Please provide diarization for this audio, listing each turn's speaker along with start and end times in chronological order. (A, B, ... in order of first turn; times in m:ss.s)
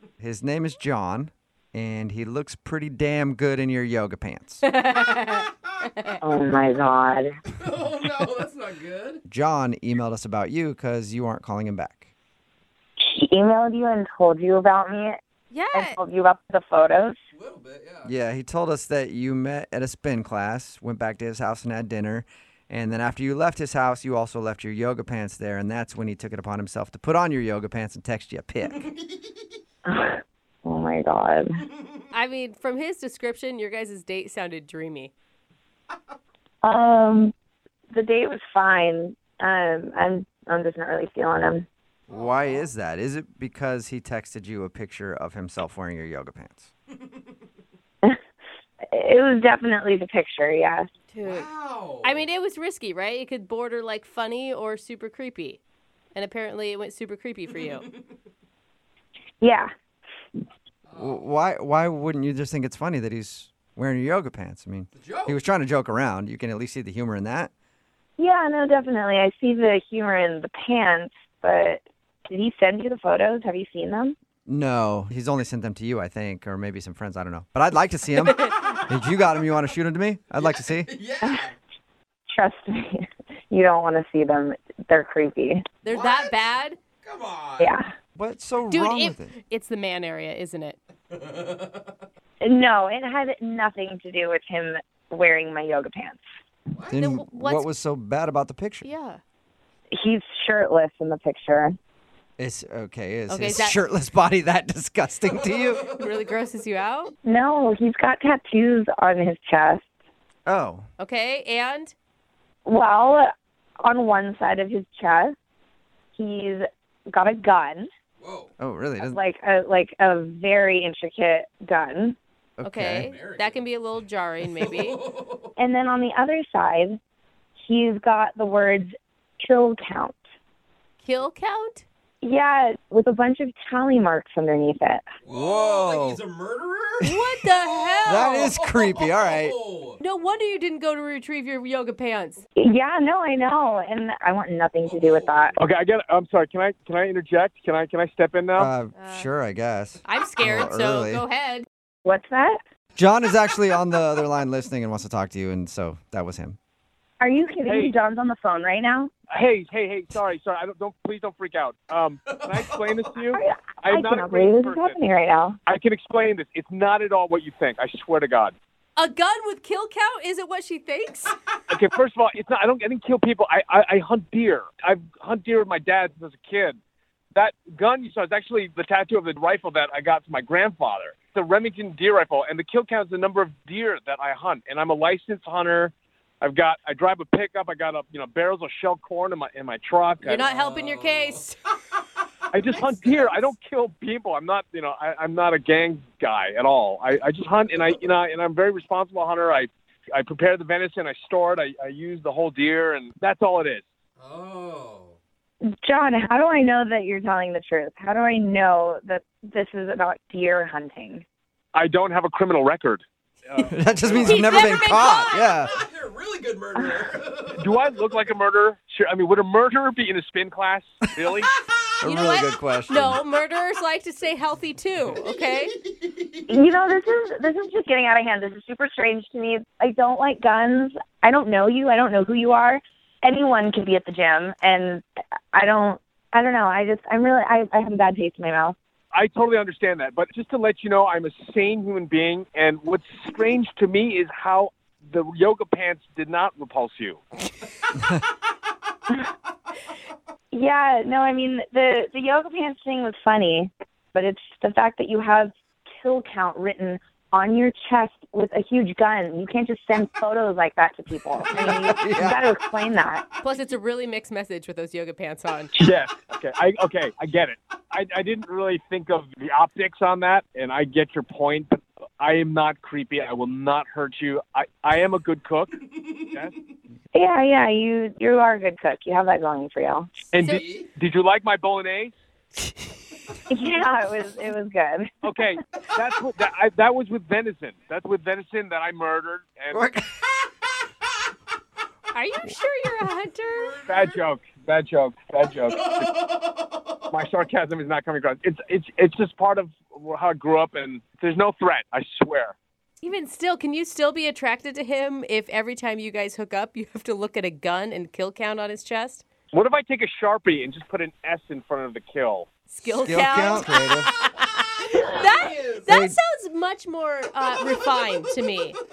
0:00.2-0:04.6 A
0:04.6-0:06.2 B
0:06.2-0:07.4 C
0:07.6-0:09.2 D
0:09.3-0:12.1 A
0:13.0-0:15.2 C
0:15.5-0:16.0 B
0:15.7-0:17.2 C
0:17.3-0:18.1 D
0:18.0-0:28.9 A
0:29.9-0:31.6 C
0:32.1-0:35.1 B
0:36.6-0:37.3 C
0:37.9-0:41.7 C
0:42.1-0:42.7 D
0:42.1-0:46.7 A
0:48.9-0:50.9 C
0:51.1-0:51.5 B
0:51.2-0:52.2 D
0:52.0-0:55.6 B
0:56.2-0:57.9 B
0:57.6-0:58.0 D
0:59.4-0:59.7 C
1:00.9-1:01.2 D
1:01.0-1:07.5 A
1:05.0-1:05.4 D
1:08.2-1:14.2 C
1:14.5-1:20.9 A
1:20.4-1:21.5 D
1:21.2-1:21.5 C
1:22.3-1:25.7 C
1:25.8-1:26.8 B
1:25.9-1:26.4 D
1:27.0-1:27.7 D
1:27.6-1:27.9 C
1:28.2-1:29.3 A
1:28.7-1:30.8 B
1:31.1-1:31.9 D
1:32.4-1:36.2 C
1:36.7-1:37.0 D
1:36.9-1:38.9 A
1:37.0-1:37.6 B
1:38.8-1:39.2 B
1:39.9-1:41.8 C
1:42.4-1:45.9 A
1:43.3-1:43.8 B
1:46.0-1:47.1 B
1:47.2-1:49.8 C
1:50.5-1:50.9 A
1:51.0-1:51.9 B
1:52.7-1:53.3 C
1:53.8-1:55.4 C
1:56.2-1:57.9 C
1:58.2-1:58.5 D
1:58.6-1:59.2 A
1:59.0-2:02.2 C
2:02.6-2:03.1 A
2:02.6-2:05.0 B
2:03.0-2:03.6 D
2:04.6-2:05.5 D
2:05.6-2:07.0 C
2:07.6-2:10.2 C
2:11.0-2:11.8 B
2:12.2-2:15.0 C
2:15.3-2:20.0 D
2:15.3-2:16.2 A
2:17.0-2:18.5 B
2:18.0-2:19.6 A
2:20.0-2:22.4 B
2:22.6-2:25.6 C
2:24.8-2:25.5 D
2:25.6-2:28.7 E
2:28.6-2:31.2 A
2:29.0-2:29.3 B
2:30.1-2:31.7 B
2:32.0-2:32.6 C
2:33.0-2:36.6 A
2:37.2-2:39.1 C
2:37.7-2:37.9 E
2:39.3-2:45.0 E
2:42.3-2:43.2 D
2:43.3-2:45.6 C
2:45.7-2:48.5 E
2:49.0-2:51.4 B
2:51.7-2:56.8 E
2:57.4-3:10.5 E
3:10.2-3:11.6 B
3:10.5-3:11.5 D
3:12.5-3:23.8 E
3:13.0-3:13.5 D
3:24.2-3:25.2 D
3:25.6-3:31.2 C
3:31.7-3:34.5 E
3:33.7-3:35.7 A
3:34.2-3:35.6 B
3:35.6-3:37.7 D
3:36.8-3:37.1 C
3:37.6-3:41.5 E
3:42.0-3:43.2 A
3:42.0-3:45.7 B
3:46.1-3:46.4 D
3:46.5-3:58.8 C
3:59.1-4:07.2 E
4:10.5-4:23.2 C
4:21.6-4:22.4 A
4:23.4-4:25.7 B
4:25.8-4:35.7 E
4:36.3-4:36.6 E
4:37.1-4:40.2 C
4:40.3-4:42.2 E
4:40.5-4:40.9 D
4:43.5-4:45.1 C
4:45.2-4:49.8 E
4:49.7-4:50.4 A
4:52.1-4:53.8 B
4:53.6-4:54.1 D
4:53.8-4:56.3 E
4:55.7-4:57.0 D
4:57.1-5:02.6 E
5:03.0-5:09.2 B
5:09.5-5:12.5 E
5:12.7-5:18.8 B
5:12.9-5:14.1 A
5:15.2-5:15.9 D
5:15.9-5:16.2 A